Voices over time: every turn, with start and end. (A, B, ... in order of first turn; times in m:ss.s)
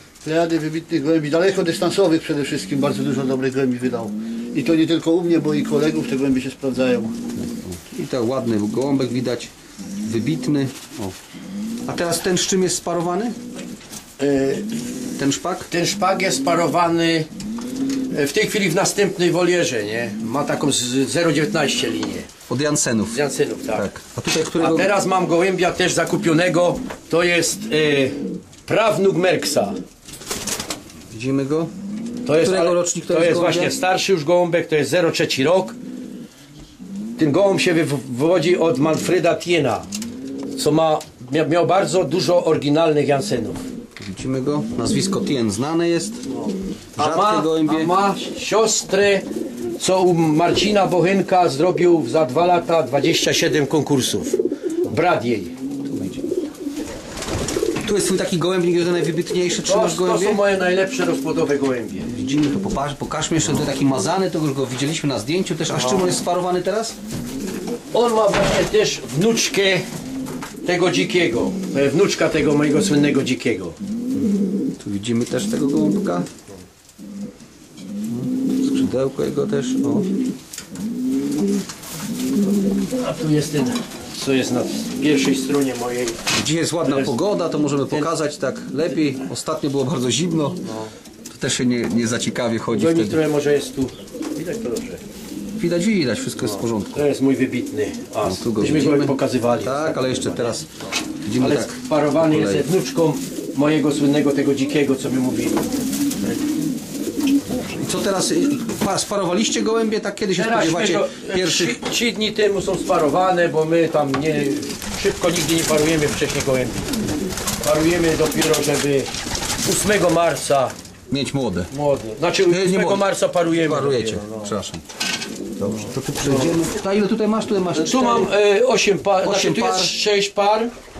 0:00.2-0:07.1 A
0:07.4-0:09.5 B
0:10.0-0:11.2 B
0:11.8-0:13.3 B
0:14.2-0:14.7 C
0:15.2-0:15.7 B
0:15.7-0:17.3 C
0:18.1-0:22.3 C
0:22.5-0:23.2 B
0:23.1-0:23.9 C
0:23.7-0:24.9 B
0:24.6-0:29.8 C
0:31.1-0:31.7 B
0:32.2-0:35.8 C
0:32.4-0:33.7 B
0:37.2-0:39.9 C
0:40.5-0:43.6 C
0:44.0-0:46.2 B
0:47.0-0:47.9 B
0:47.0-0:49.2 C
0:49.8-0:54.4 C
0:54.9-0:55.6 C
0:55.8-0:56.2 B
0:57.8-1:00.4 B
0:59.6-1:02.1 C
1:02.1-1:06.9 B
1:07.9-1:09.8 C
1:10.6-1:13.8 C
1:14.8-1:16.3 B
1:18.1-1:20.1 B
1:23.0-1:26.2 C
1:26.3-1:30.6 B
1:26.8-1:27.2 C
1:31.3-1:33.2 B
1:32.7-1:35.0 C
1:35.6-1:37.0 B
1:36.4-1:40.6 C
1:38.2-1:40.7 B
1:41.2-1:42.7 B
1:41.4-1:45.6 C
1:47.6-1:51.8 B
1:50.4-1:56.9 C
1:57.6-1:59.1 C
1:59.6-2:00.7 C
2:01.1-2:01.7 B
2:01.7-2:04.5 C
2:02.4-2:04.8 B
2:05.6-2:08.3 B
2:06.2-2:06.5 C
2:07.8-2:10.7 C
2:09.2-2:09.9 B